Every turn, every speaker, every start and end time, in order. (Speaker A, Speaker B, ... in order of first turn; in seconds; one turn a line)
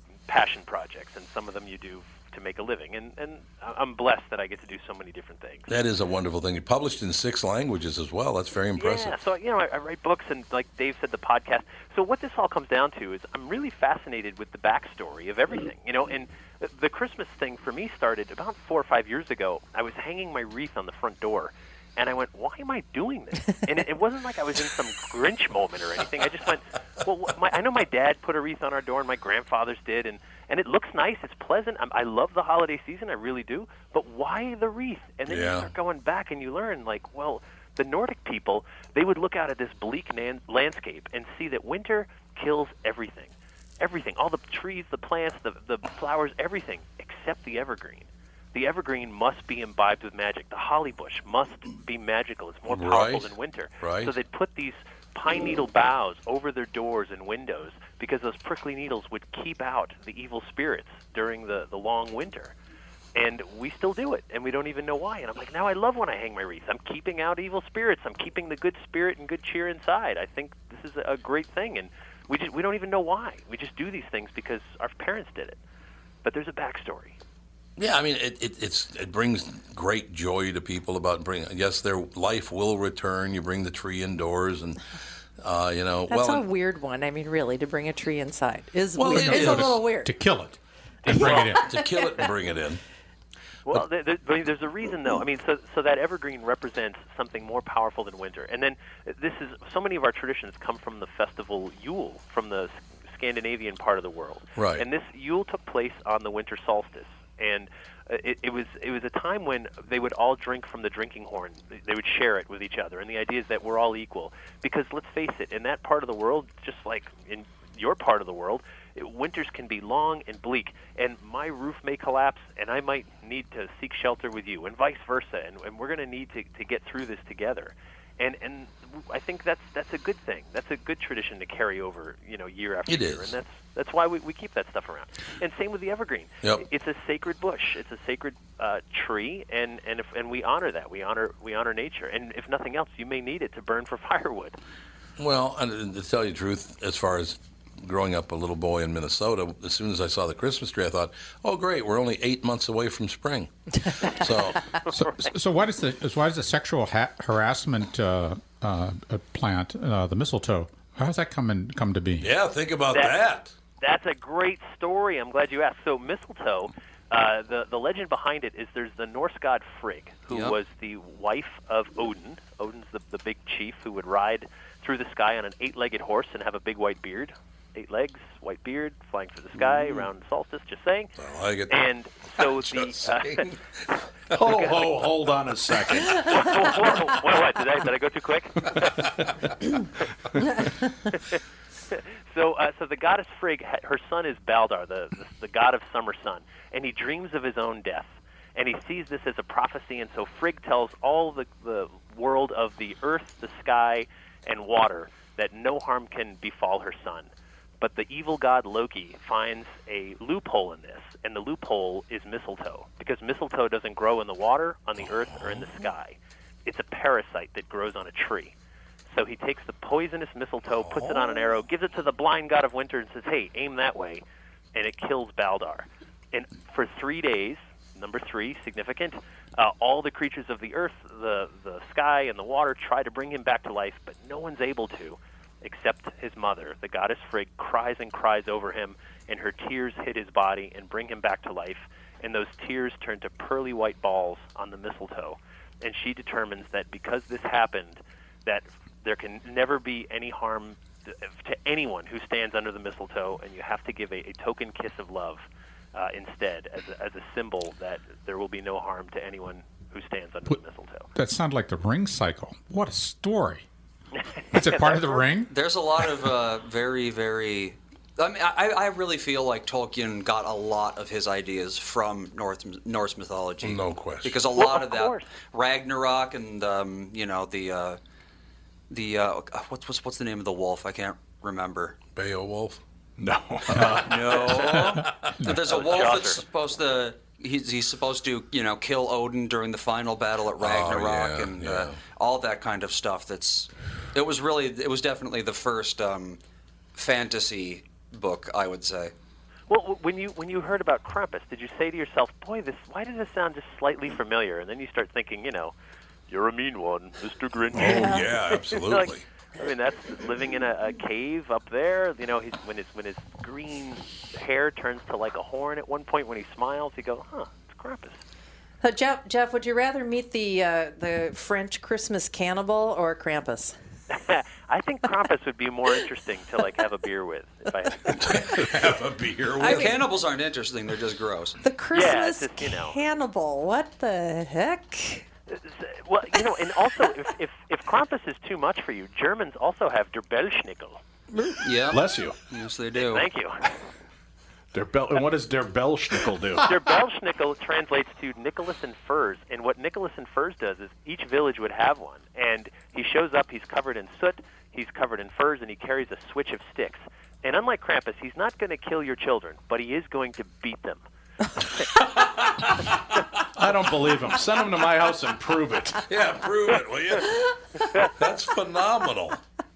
Speaker A: 0.3-5.7
Speaker B: 5.7-9.2
Speaker A: 8.8-62.5
Speaker B: 35.3-35.7
Speaker B: 52.7-53.3
Speaker B: 53.8-54.1
Speaker A: 63.1-75.6
Speaker A: 76.2-77.2
Speaker B: 77.8-84.8
Speaker B: 85.4-86.4
Speaker C: 86.1-90.1
Speaker B: 88.9-89.8
Speaker D: 89.1-91.7
Speaker A: 91.0-91.5
Speaker B: 91.2-92.8
Speaker C: 91.6-92.0
Speaker A: 93.7-144.6
Speaker B: 104.6-104.8
Speaker B: 132.9-133.3
Speaker B: 145.2-154.7
Speaker D: 154.9-162.3
Speaker B: 162.2-163.5
Speaker A: 163.8-181.1
Speaker E: 170.3-170.6
Speaker B: 181.2-181.7
Speaker A: 181.7-183.5
Speaker B: 182.4-183.5
Speaker F: 184.3-186.5
Speaker A: 184.4-184.9
Speaker A: 186.1-189.2
Speaker A: 191.1-218.5
Speaker A: 219.1-224.2
Speaker B: 220.8-221.2
Speaker A: 224.7-255.4
Speaker A: 255.9-261.1
Speaker D: 261.1-263.6
Speaker A: 264.5-265.2
Speaker D: 264.5-265.5
Speaker E: 265.5-278.0
Speaker B: 273.6-274.3
Speaker A: 274.5-275.2
Speaker E: 278.9-282.0
Speaker B: 282.1-282.8
Speaker F: 283.2-284.2
Speaker E: 283.8-296.4
Speaker A: 285.6-286.4
Speaker B: 290.6-292.0
Speaker E: 296.9-299.1
Speaker A: 299.7-305.7
Speaker A: 306.3-318.2
Speaker B: 307.7-309.2
Speaker C: 307.8-308.2
Speaker C: 318.8-323.7
Speaker A: 324.1-328.5
Speaker B: 328.1-330.0
Speaker C: 329.6-329.9
Speaker E: 329.6-331.6
Speaker C: 331.6-335.2
Speaker A: 331.9-333.0
Speaker A: 335.7-341.0
Speaker E: 341.6-343.3
Speaker F: 341.9-342.4
Speaker A: 342.9-343.7
Speaker F: 344.7-346.7
Speaker A: 346.6-361.0
Speaker A: 361.6-361.9
Speaker B: 362.0-363.0
Speaker F: 363.5-366.1
Speaker B: 366.1-367.5
Speaker B: 368.1-369.4